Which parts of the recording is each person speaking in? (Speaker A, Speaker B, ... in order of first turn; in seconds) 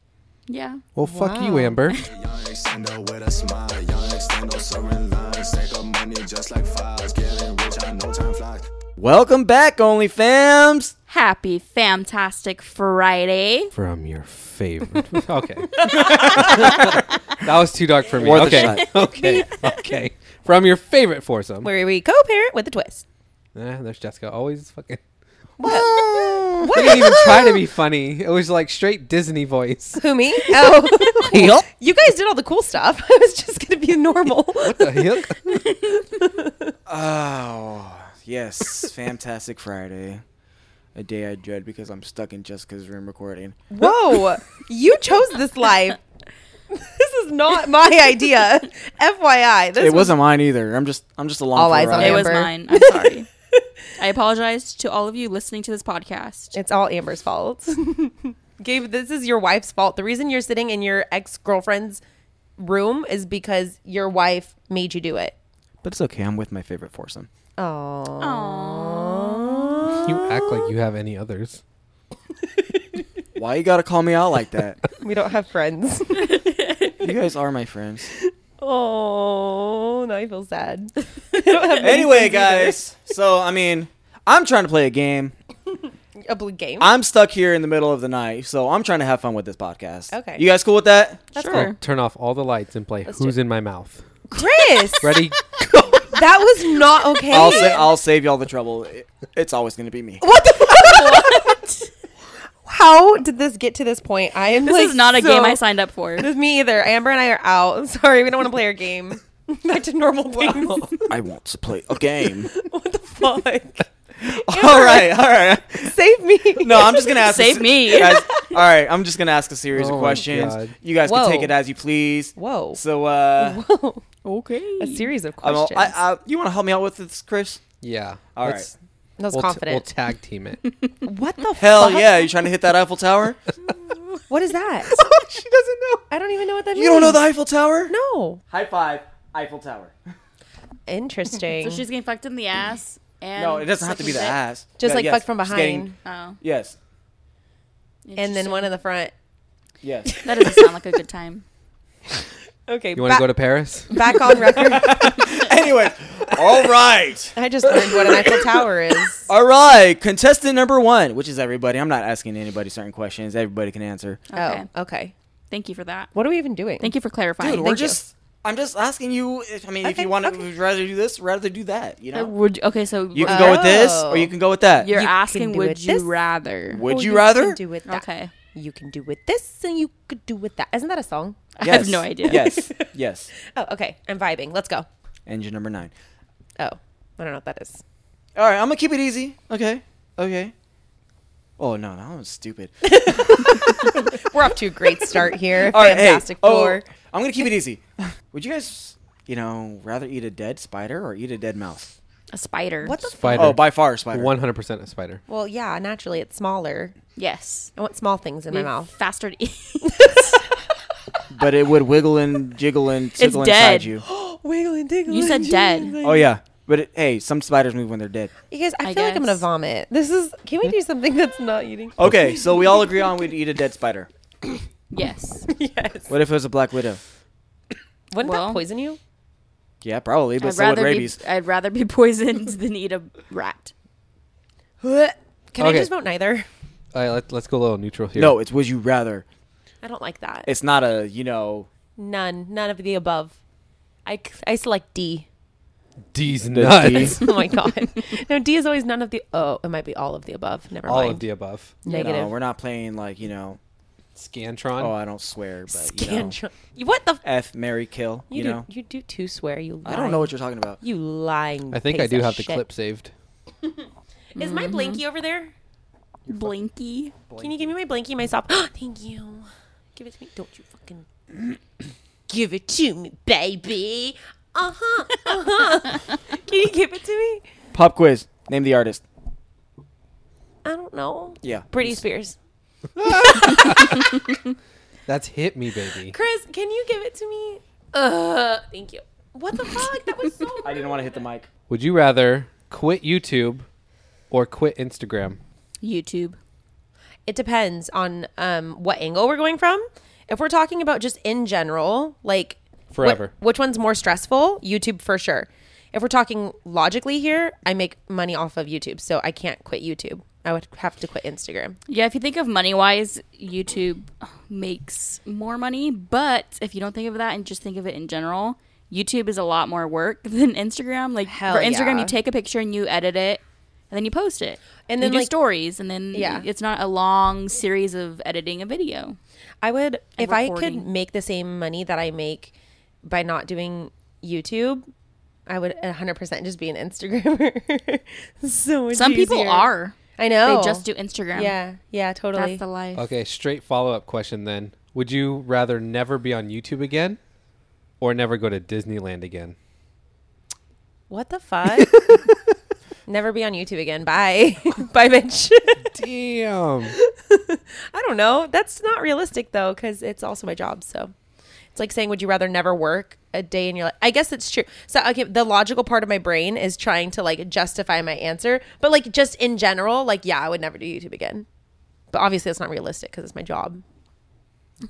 Speaker A: 0.5-0.8, 11.1-13.7, 16.5-16.9, 18.3-19.8, 35.5-36.0, 52.0-53.3, 54.0-56.5, 68.2-70.0, 76.2-76.9, 91.4-91.8, 100.6-101.9, 104.6-106.3, 117.2-118.3, 124.2-125.1, 141.6-144.4, 146.0-146.4, 148.0-148.7, 150.2-151.4, 153.9-154.3, 164.3-164.7, 165.5-166.1, 166.8-167.7, 172.1-173.7, 174.8-176.8, 177.9-178.3, 181.6-182.4, 202.3-203.0, 207.2-207.7, 208.5-210.4, 213.2-213.9, 215.1-216.0, 218.8-219.4, 224.9-225.5, 228.2-228.6, 230.4-233.7, 264.4-265.0, 266.3-267.2, 295.8-296.4, 311.9-329.2, 330.2-330.9, 338.9-341.5, 342.3-343.1
Speaker B: 0.9-2.0, 13.7-21.7, 23.5-25.0, 26.7-30.0, 30.7-31.6, 34.6-35.4, 70.0-71.6, 91.5-94.0, 95.0-96.1, 110.4-111.0, 119.7-120.7, 127.8-128.7, 129.3-130.6, 134.9-136.0, 153.0-153.9, 203.2-205.2, 235.6-235.9, 236.9-238.4, 246.1-247.3, 250.9-251.8, 254.2-254.9, 261.7-263.1, 283.0-284.2, 285.1-286.1, 291.7-293.6, 294.3-295.4, 302.9-303.3, 342.9-347.2, 348.0-349.6, 355.9-356.9
Speaker C: 1.0-1.8, 21.6-23.0, 25.6-27.7, 30.0-35.2, 36.0-36.7, 43.7-46.0, 46.7-50.1, 51.5-53.0, 56.5-62.0, 62.6-65.3, 67.6-70.7, 75.0-77.0, 78.2-82.8, 86.2-86.9, 90.1-90.4, 91.3-91.7, 93.0-93.3, 94.3-95.2, 96.1-97.9, 100.2-101.6, 102.6-105.6, 106.2-111.0, 112.5-115.2, 115.8-117.2, 118.0-118.4, 121.0-121.5, 122.3-122.8, 123.4-124.0, 124.8-126.0, 129.2-129.8, 131.0-132.3, 134.2-135.0, 136.1-137.2, 137.9-138.4, 140.9-141.8, 144.8-145.9, 148.2-149.1, 150.1-150.7, 152.7-155.4, 157.3-159.3, 164.3-165.1, 166.1-166.9, 167.4-168.0, 169.8-170.4, 173.2-174.3, 174.8-176.1, 176.8-181.4, 182.2-182.8, 183.5-184.8, 186.6-187.8, 192.8-196.8, 202.8-203.6, 205.3-206.9, 207.8-208.9, 209.8-210.6, 214.0-216.3, 218.5-222.6, 225.5-226.1, 228.1-229.0, 234.8-236.5, 239.8-240.5, 242.0-243.3, 244.1-245.2, 246.9-251.2, 251.8-252.3, 255.7-257.2, 258.3-262.6, 264.3-265.5, 267.4-271.0, 272.3-277.4, 280.6-282.3, 283.1-284.0, 286.1-291.1, 297.3-311.8, 321.3-322.1, 324.9-325.3, 326.1-326.5, 329.6-332.5, 333.0-334.9, 335.5-342.6, 351.1-352.2, 353.1-356.0, 356.9-361.1, 361.7-371.4, 372.1-373.8
Speaker D: 2.0-8.7
Speaker E: 9.0-10.9, 15.9-16.9, 18.2-18.9, 25.6-26.9, 36.9-40.2, 40.9-43.6, 49.8-52.3, 65.8-67.3, 73.3-74.8, 77.0-78.1, 81.8-85.3, 86.8-91.7, 97.3-100.3, 111.1-112.5, 114.2-115.9, 116.5-123.6, 125.4-127.6, 128.3-128.7, 131.6-133.4, 136.7-137.9, 138.5-139.9, 143.3-146.8, 149.8-150.2, 154.4-158.6, 159.2-164.2, 167.4-172.3, 173.1-174.9, 176.7-177.6, 181.6-183.3, 185.3-185.9, 188.3-190.5, 191.6-194.3, 195.6-201.9, 203.3-204.3, 211.3-214.0, 216.0-218.3, 222.0-224.1, 226.1-227.0, 229.8-231.2, 238.2-239.2, 240.4-241.7, 246.5-247.2, 251.9-253.6, 254.8-256.4, 257.2-258.6, 259.8-260.8, 267.3-267.6, 277.7-279.0, 281.4-282.0, 290.6-291.5